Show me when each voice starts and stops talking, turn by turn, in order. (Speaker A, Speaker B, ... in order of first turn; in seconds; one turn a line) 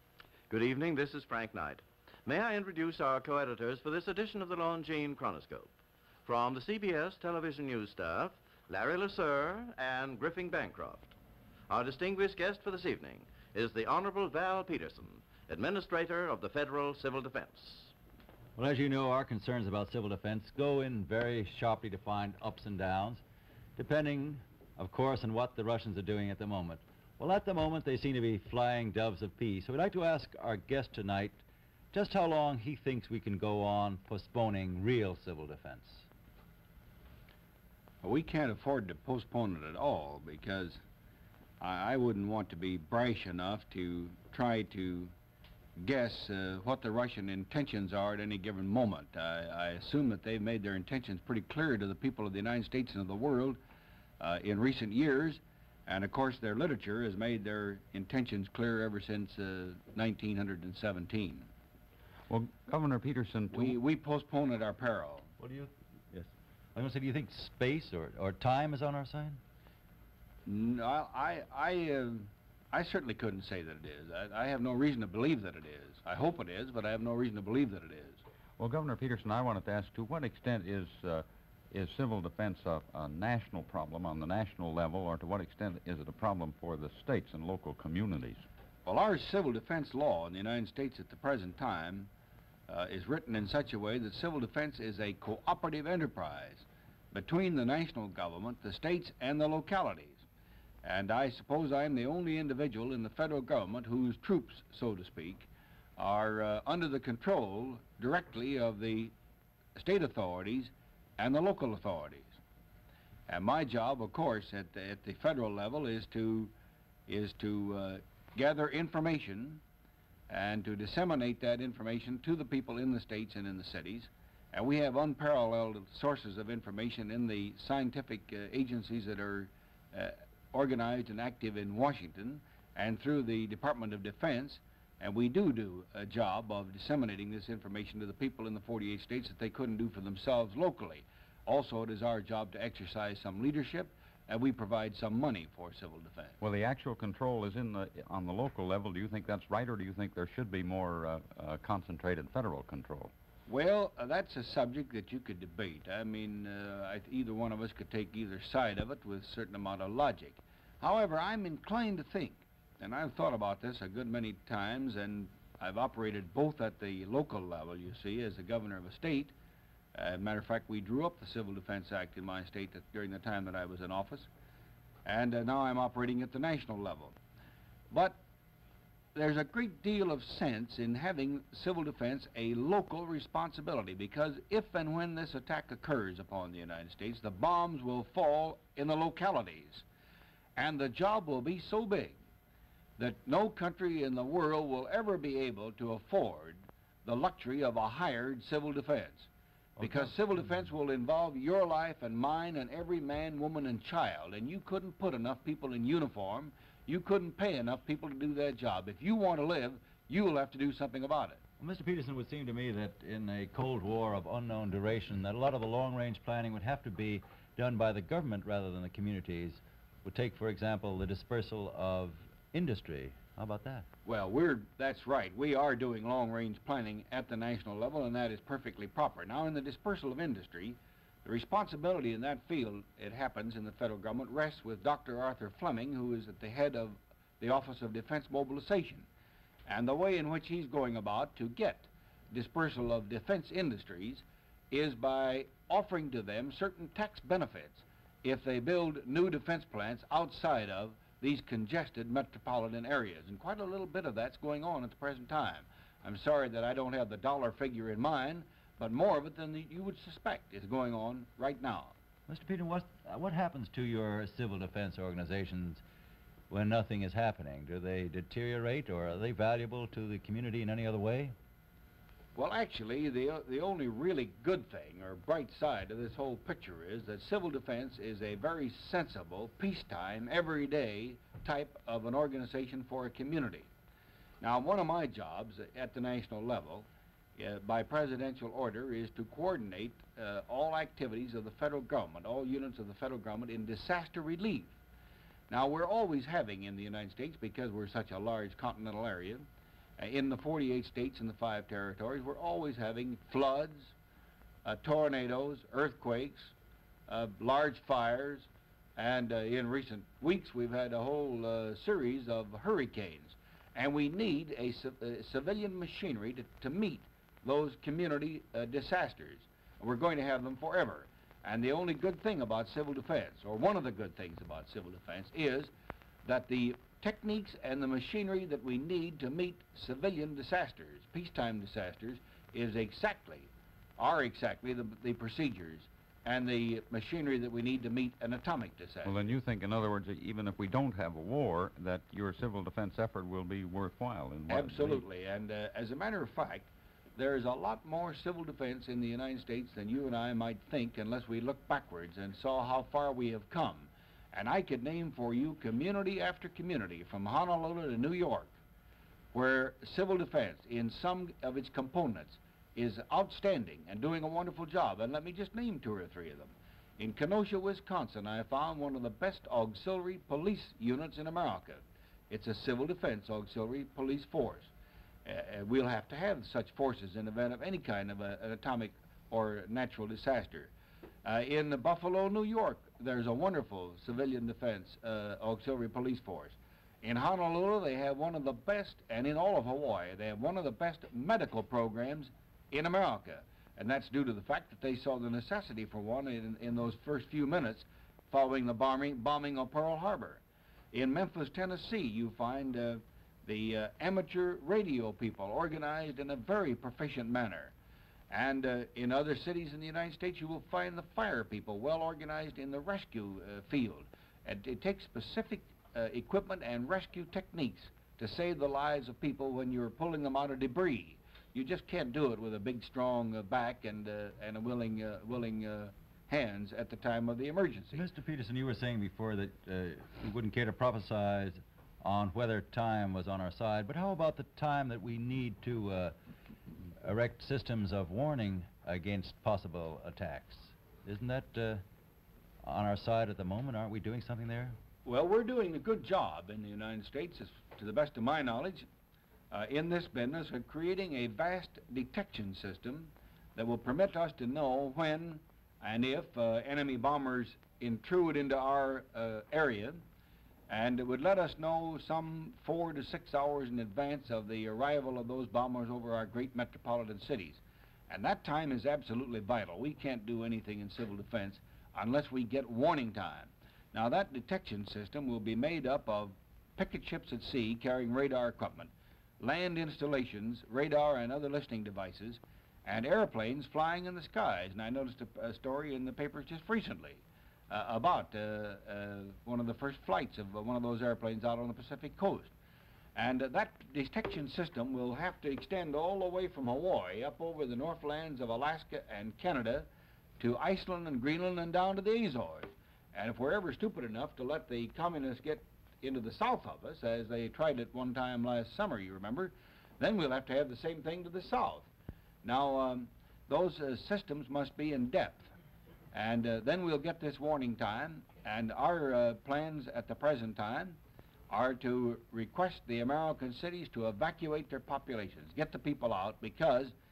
Speaker A: 0.5-5.7
Speaker A: 6.2-11.1
Speaker A: 11.7-17.9
Speaker B: 18.6-23.2
Speaker B: 23.8-36.1
Speaker C: 38.0-40.8
Speaker C: 41.6-45.1
Speaker C: 45.8-53.6
Speaker C: 54.2-61.5
Speaker D: 62.3-63.8
Speaker C: 63.5-65.3
Speaker B: 65.4-69.4
Speaker C: 70.5-78.2
Speaker D: 78.6-88.5
Speaker C: 88.8-92.1
Speaker C: 92.7-100.2
Speaker C: 100.8-109.1
Speaker C: 109.8-112.4
Speaker C: 113.3-116.5
Speaker C: 117.1-119.6
Speaker C: 120.3-146.4
Speaker D: 146.4-153.1
Speaker C: 153.5-169.3
Speaker C: 169.9-174.3
Speaker C: 175.0-177.2
Speaker C: 177.9-178.2
Speaker C: 179.1-189.8
Speaker C: 190.6-192.2
Speaker C: 193.0-211.4
Speaker B: 211.6-223.8
Speaker C: 224.0-239.1
Speaker C: 239.7-261.9
Speaker B: 262.3-265.8
Speaker B: 266.5-271.3
Speaker C: 272.4-283.7
Speaker C: 284.4-294.8
Speaker C: 295.5-299.5
Speaker C: 300.0-303.9
Speaker C: 304.6-306.5
Speaker C: 307.1-325.7
Speaker C: 326.2-339.1
Speaker D: 339.0-345.0
Speaker C: 344.5-358.5
Speaker C: 359.3-374.7
Speaker C: 375.2-380.7
Speaker C: 381.2-407.7
Speaker C: 408.3-428.0
Speaker B: 427.9-436.1
Speaker B: 437.0-441.8
Speaker B: 442.6-444.8
Speaker C: 445.0-448.9
Speaker C: 449.5-460.0
Speaker C: 460.7-492.5
Speaker C: 493.1-499.9
Speaker C: 500.4-511.9
Speaker C: 512.4-515.5
Speaker C: 516.1-526.9